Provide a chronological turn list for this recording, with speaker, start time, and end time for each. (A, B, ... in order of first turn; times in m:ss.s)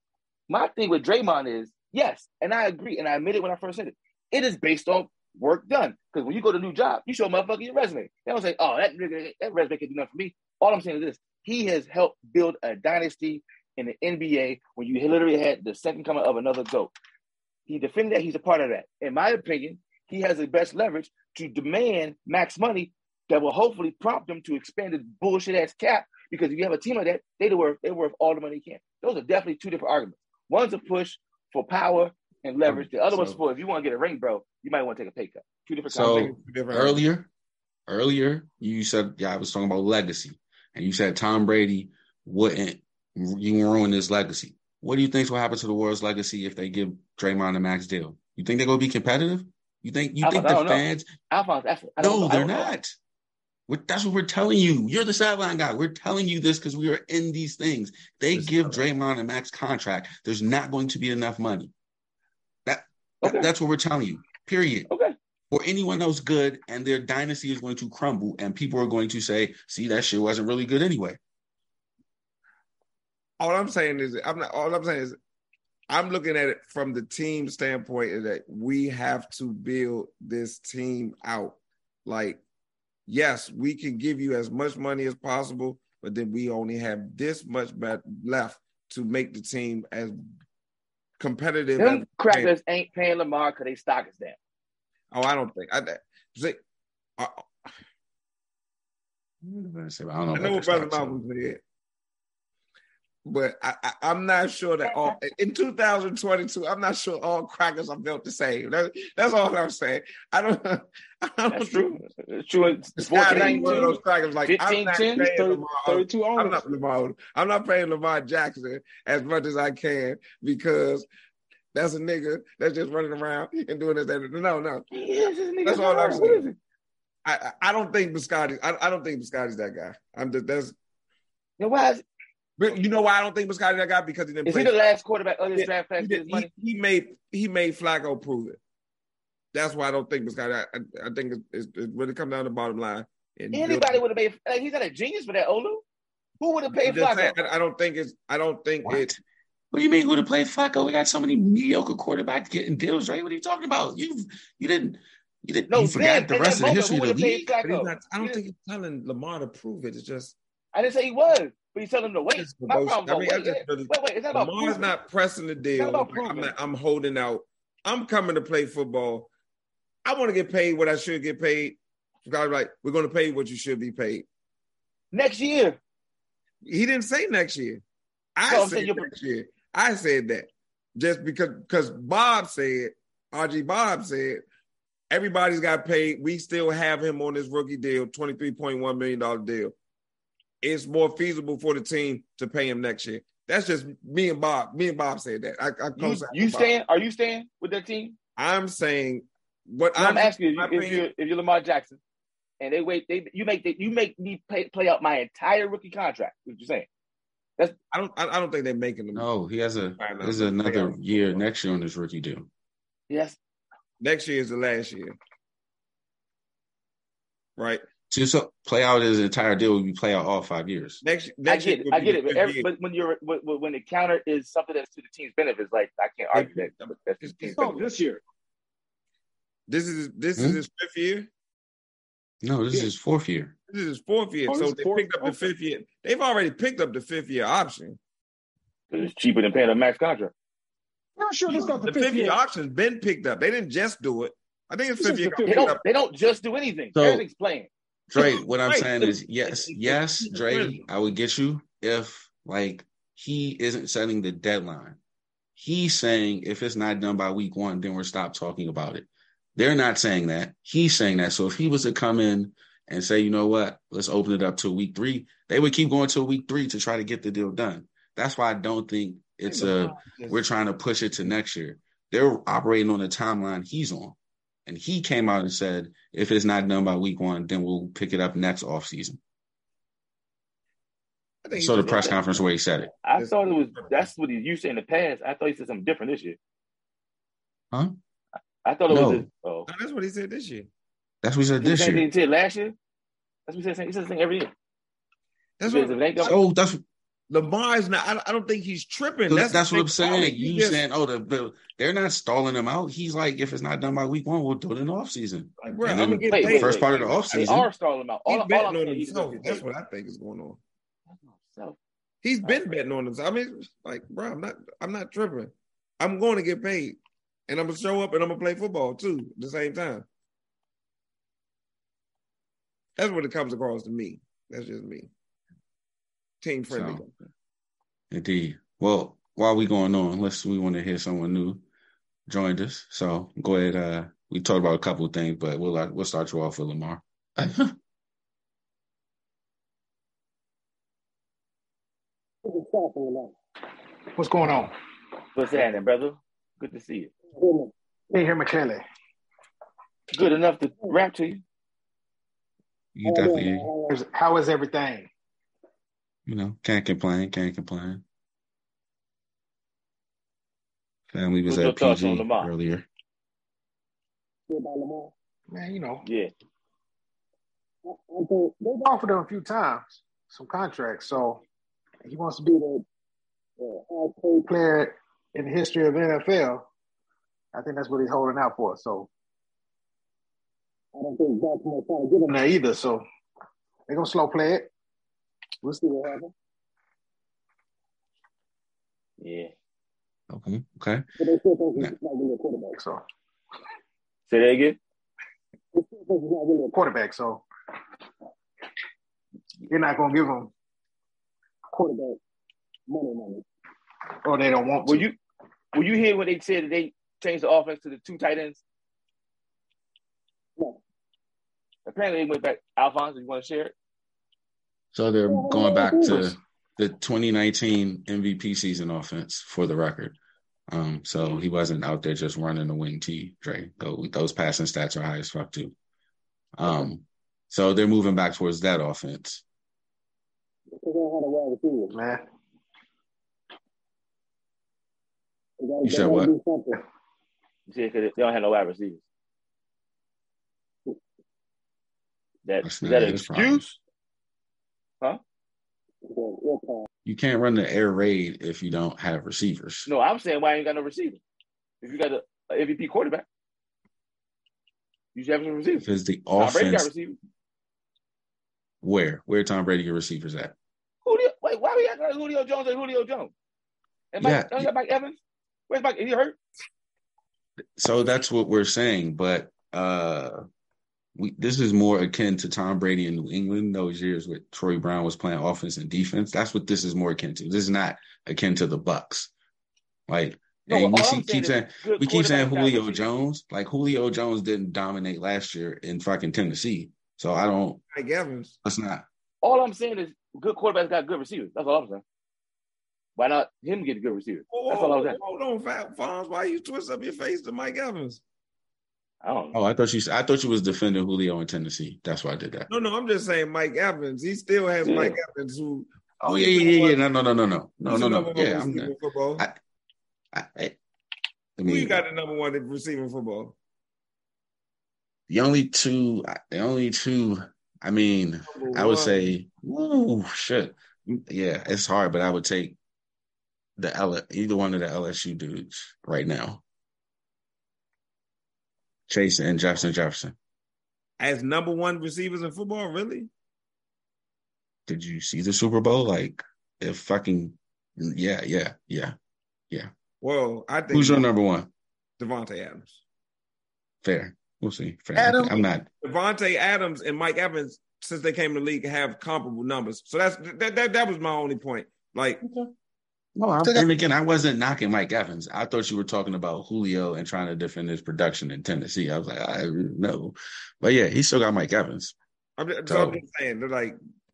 0:00.5-0:16.9 A
0:17.7-0:36.3 A
0:32.6-0:33.4 B
0:35.9-0:37.3 B
0:35.9-0:37.0 C
0:37.9-0:51.1 B
0:50.2-0:52.7 A
0:52.0-0:53.0 B
0:53.7-1:01.7 B
0:58.3-0:58.8 C
1:02.6-1:04.9 B
1:03.2-1:03.5 A
1:04.9-1:05.1 A
1:05.5-1:11.2 B
1:13.4-1:15.2 C
1:15.9-1:22.4 C
1:23.1-1:30.2 C
1:31.2-1:32.5 C
1:31.8-1:34.4 A
1:35.1-1:36.6 C
1:37.2-1:37.5 C
1:39.4-1:41.2 B
1:40.3-1:41.6 C
1:43.2-1:52.0 C
1:51.5-1:53.9 A
1:53.0-2:01.1 C
1:53.3-1:54.0 D
1:54.5-1:55.3 A
1:55.2-1:56.6 D
2:01.7-2:04.9 C
2:04.9-2:06.6 A
2:05.6-2:06.5 C
2:07.2-2:10.7 C
2:11.6-2:12.0 A
2:12.6-2:14.8 C
2:14.4-2:16.5 A
2:15.6-2:18.6 C
2:19.5-2:24.0 C
2:23.5-2:25.8 A
2:26.4-2:27.4 A
2:26.8-2:29.1 C
2:28.9-2:29.2 B
2:29.7-2:37.5 B
2:35.7-2:38.4 A
2:37.6-2:40.4 C
2:40.7-2:44.9 A
2:42.4-2:49.3 C
2:45.8-2:46.5 A
2:50.0-2:54.2 C
2:55.1-2:55.8 A
2:56.6-2:57.8 C
2:58.4-3:04.4 C
2:58.5-2:59.1 A
3:05.1-3:09.7 C
3:10.6-3:16.7 C
3:16.0-3:18.2 A
3:18.4-3:21.1 C
3:20.0-3:22.0 A
3:22.6-3:26.9 A
3:27.9-3:29.3 C
3:29.1-3:32.5 B
3:30.0-3:31.4 C
3:33.1-3:33.4 A
3:34.0-3:35.2 C
3:37.6-3:37.8 C
3:38.1-3:41.0 B
3:41.0-3:42.7 C
3:41.5-3:47.6 A
3:46.3-3:47.9 C
3:47.6-3:48.2 D
3:49.7-3:51.3 C
3:52.4-3:53.6 B
3:53.7-3:58.0 C
3:54.5-3:55.5 D
3:58.9-4:00.3 A
4:01.2-4:02.4 D
4:01.5-4:05.8 C
4:05.0-4:05.7 D
4:05.4-4:07.7 A
4:06.9-4:07.2 B
4:08.1-4:15.0 B
4:08.2-4:10.8 C
4:15.6-4:39.2 B
4:29.5-4:30.4 C
4:41.4-4:42.1 C
4:41.6-4:42.9 B
4:41.8-4:42.2 A
4:43.0-4:46.4 A
4:43.2-4:43.9 C
4:48.6-4:49.7 A
4:48.9-4:49.3 B
4:49.7-4:50.7 C
4:51.2-4:52.1 B
4:51.6-4:52.7 A
4:53.5-4:54.5 A
4:55.6-4:56.4 C
4:55.6-4:56.3 A
4:56.2-4:56.8 B
4:57.3-5:00.8 C
4:59.3-5:07.7 B
5:05.6-5:07.5 C
5:06.2-5:09.6 A
5:08.3-5:10.6 C
5:11.1-5:11.8 A
5:12.2-5:20.0 C
5:12.4-5:12.7 A
5:23.0-5:25.1 C
5:26.4-5:27.1 C
5:26.7-5:27.0 B
5:28.1-5:31.6 B
5:32.3-5:37.7 B
5:42.4-5:43.3 E
5:44.1-5:44.7 E
5:45.3-5:47.1 A
5:47.3-5:48.8 E
5:50.1-5:51.4 A
5:52.9-5:53.7 B
5:53.0-5:55.1 E
5:56.3-5:58.0 B
6:01.1-6:02.9 B
6:01.5-6:02.5 A
6:04.5-6:06.0 E
6:06.0-6:06.3 A
6:07.9-6:11.4 E
6:12.0-6:12.8 E
6:13.6-6:16.6 E
6:17.5-6:19.1 E
6:20.9-6:23.0 E
6:23.9-6:24.7 E
6:25.6-6:26.3 E
6:29.2-6:29.5 A
6:30.3-6:31.0 B
6:31.2-6:33.0 E
6:34.3-6:34.8 A
6:35.7-6:37.4 E
6:39.7-6:40.5 E
6:41.7-6:42.2 E
6:42.9-6:43.4 E
6:44.2-6:45.0 E
6:44.8-6:45.1 A
6:45.7-6:48.6 A
6:51.9-6:53.7 A
6:54.9-7:00.2 B
6:55.3-6:56.3 E
7:00.7-7:05.7 B
7:06.6-7:09.4 B
7:10.8-7:12.2 E
7:15.6-7:16.8 E
7:15.8-7:16.3 B
7:17.7-7:19.0 A
7:22.4-7:23.8 A
7:22.6-7:23.6 B
7:26.0-7:26.9 E
7:27.0-7:29.9 B
7:29.9-7:31.2 A
7:31.8-7:33.2 A
7:35.1-7:37.2 A
7:35.8-7:36.9 B
7:38.8-7:40.5 B
7:41.0-7:43.3 A
7:44.1-7:45.2 A
7:44.2-7:44.7 B
7:45.7-7:46.4 A
7:47.8-7:50.4 B
7:51.1-7:59.3 B
8:00.1-8:07.8 B
8:00.7-8:03.0 A
8:07.9-8:08.6 C
8:08.6-8:09.0 B
8:09.4-8:12.0 A
8:13.2-8:15.2 A
8:14.5-8:18.2 C
8:19.2-8:19.6 A
8:19.5-8:22.7 B
8:22.7-8:27.0 C
8:24.8-8:25.2 A
8:26.2-8:29.6 B
8:27.9-8:29.4 C
8:30.3-8:30.8 B
8:31.6-8:32.0 B
8:31.6-8:33.6 C
8:35.3-8:42.8 B
8:38.5-8:39.3 C
8:43.8-8:46.6 B
8:49.1-8:50.4 B
8:51.2-8:53.3 C
8:54.9-8:59.1 B
9:00.2-9:01.2 C
9:00.9-9:01.7 B
9:02.2-9:03.0 C
9:04.0-9:05.9 B
9:05.2-9:05.6 E
9:06.0-9:12.4 C
9:13.4-9:22.2 B
9:22.6-9:24.0 C
9:22.8-9:23.2 B